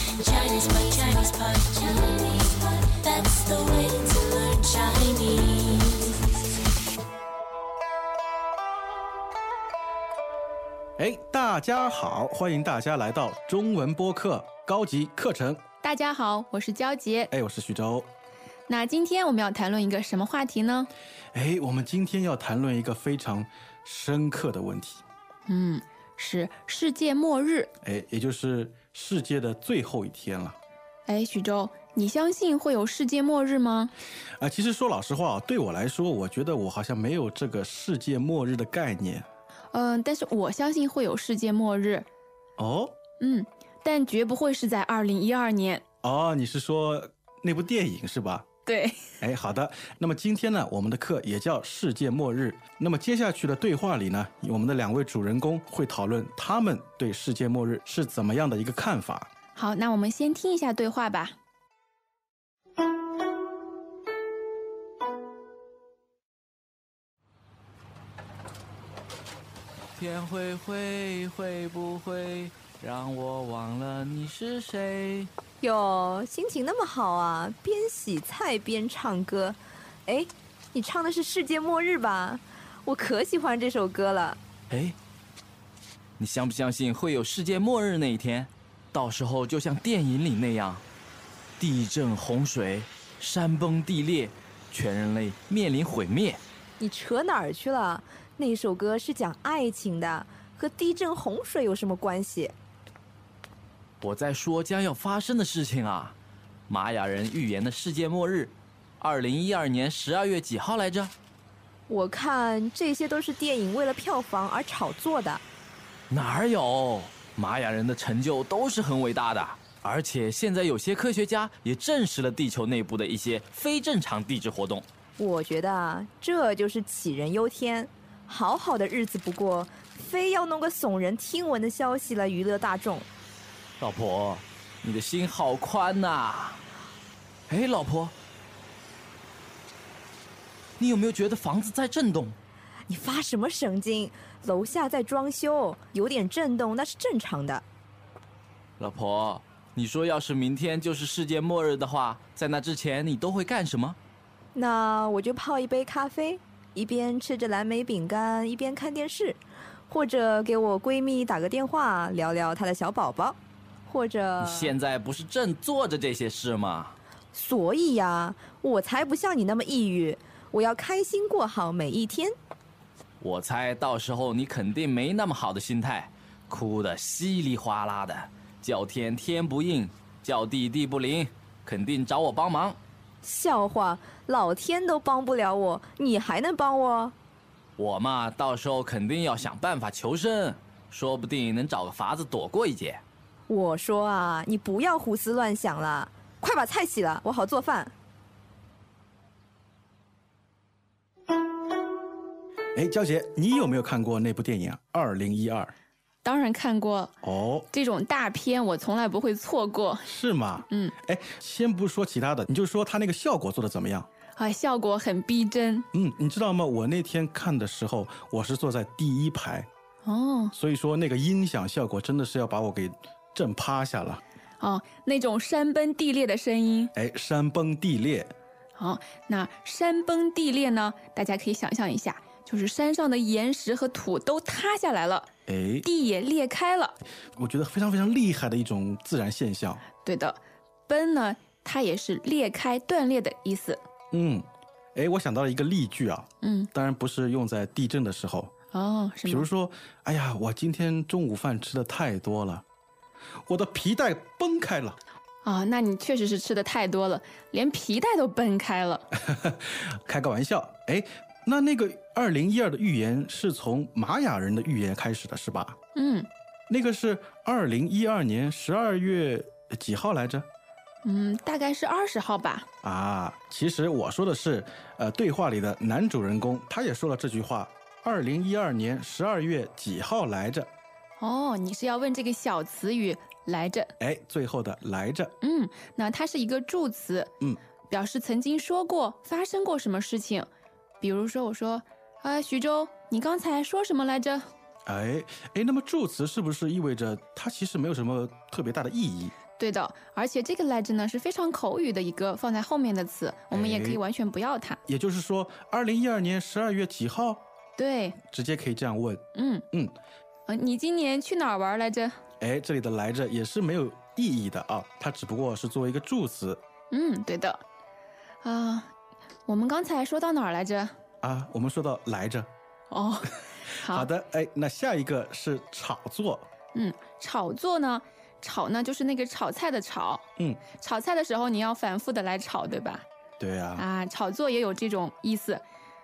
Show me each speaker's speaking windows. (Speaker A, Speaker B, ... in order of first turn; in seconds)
Speaker A: 0.2-6.2
Speaker B: 11.0-15.6, 17.3-18.1, 21.3-25.0, 27.8-30.6, 34.4-39.3, 42.6-43.0, 46.0-48.5, 49.2-59.3, 202.8-205.7, 207.2-207.7, 210.1-214.1, 215.9-219.7, 220.6-224.2, 227.0-228.3, 235.5-235.9, 237.4-239.8, 244.1-248.5, 249.3-252.6, 253.5-255.0, 259.3-265.8, 266.7-270.5, 272.8-280.7, 284.0-285.3, 294.9-299.3, 303.5-304.0, 304.9-307.4, 308.3-309.9, 312.4-316.6, 321.2-322.5, 323.9-326.5, 333.4-333.8
Speaker C: 15.8-17.3, 18.7-20.9, 25.5-27.7, 31.1-33.9, 39.7-42.1, 43.2-45.8, 48.7-49.0, 59.5-61.4, 206.2-207.2, 207.7-210.1, 210.7-210.9, 214.4-215.9, 220.0-220.5, 224.6-226.9, 228.8-235.3, 235.8-237.0, 240.0-243.8, 246.4-246.7, 248.7-249.5, 255.4-259.1, 265.9-266.3, 271.0-272.7, 281.2-283.9, 285.4-287.3, 287.9-290.5, 291.0-294.4, 299.6-304.8, 307.8-308.2, 309.4-309.6, 310.5-312.2, 316.9-317.6, 318.4-318.9, 319.5-320.9, 322.9-324.1, 326.7-333.1, 333.8-335.6
Speaker D: 70.0-75.3, 84.7-85.0, 86.2-90.8, 91.6-96.4, 104.0-106.2, 106.7-111.1, 116.1-124.9, 133.8-136.6, 137.5-138.1, 140.8-142.4, 148.8-154.0, 164.4-167.0, 173.2-182.8, 187.8-193.0
Speaker E: 75.6-84.4, 96.8-102.5, 111.9-115.4, 125.2-133.1, 142.9-147.6, 154.5-164.8, 167.3-172.3, 183.2-187.2, 193.5-197.9